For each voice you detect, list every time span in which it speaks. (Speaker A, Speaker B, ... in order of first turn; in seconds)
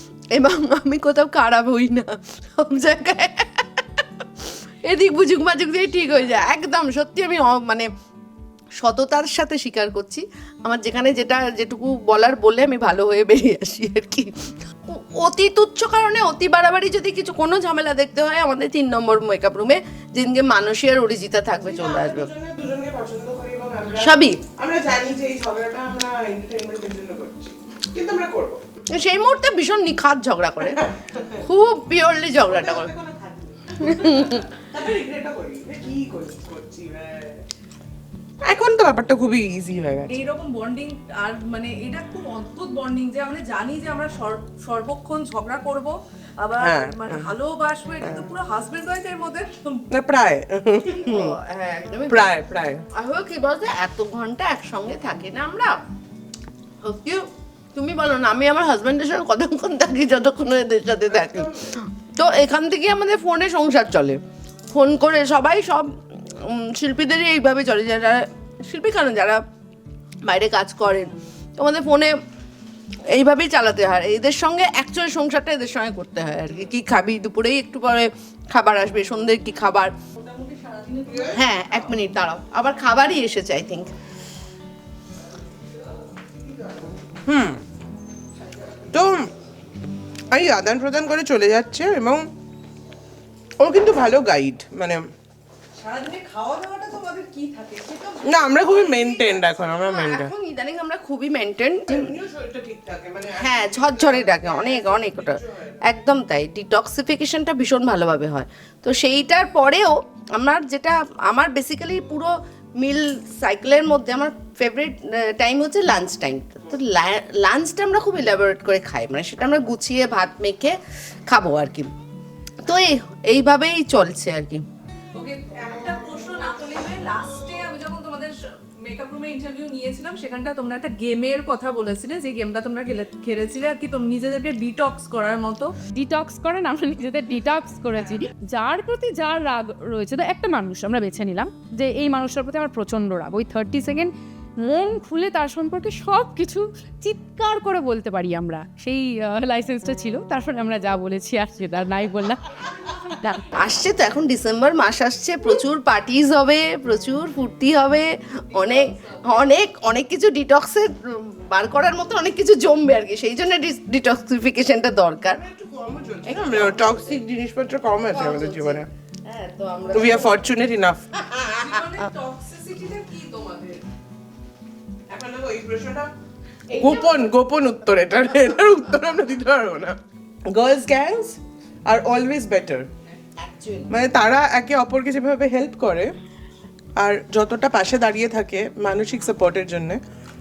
Speaker A: 0.3-7.9, 8.8-22.3, 24.0-24.4, 28.9-30.8, 31.4-32.9, 33.8-34.4, 50.9-52.3, 52.9-55.7, 56.8-64.2, 64.7-69.4, 70.2-72.1, 73.1-79.9, 81.3-83.9, 99.4-102.1, 103.4-120.8, 121.3-121.9, 122.6-124.6, 153.5-165.4, 166.2-167.2, 168.1-170.4, 171.2-171.8, 176.7-177.3, 183.4-184.0
Speaker B: 21.6-28.6, 30.7-31.4, 32.5-37.4, 38.4-40.1, 46.6-47.3, 48.0-48.3, 49.9-51.4, 52.1-52.8, 61.1-61.7, 81.1-81.4, 87.2-87.6, 88.9-89.3, 90.3-92.2, 93.6-95.0, 98.2-100.3, 101.8-105.8, 165.3-168.9, 169.9-171.2, 175.1-176.1, 176.8-180.0, 180.5-182.9, 183.9-186.1, 187.0-190.0
Speaker C: 40.1-49.8, 80.2-81.9, 95.8-99.2, 125.1-135.7, 159.0-159.3, 171.5-173.8
Speaker D: 135.9-144.1, 144.6-152.4, 153.1-153.5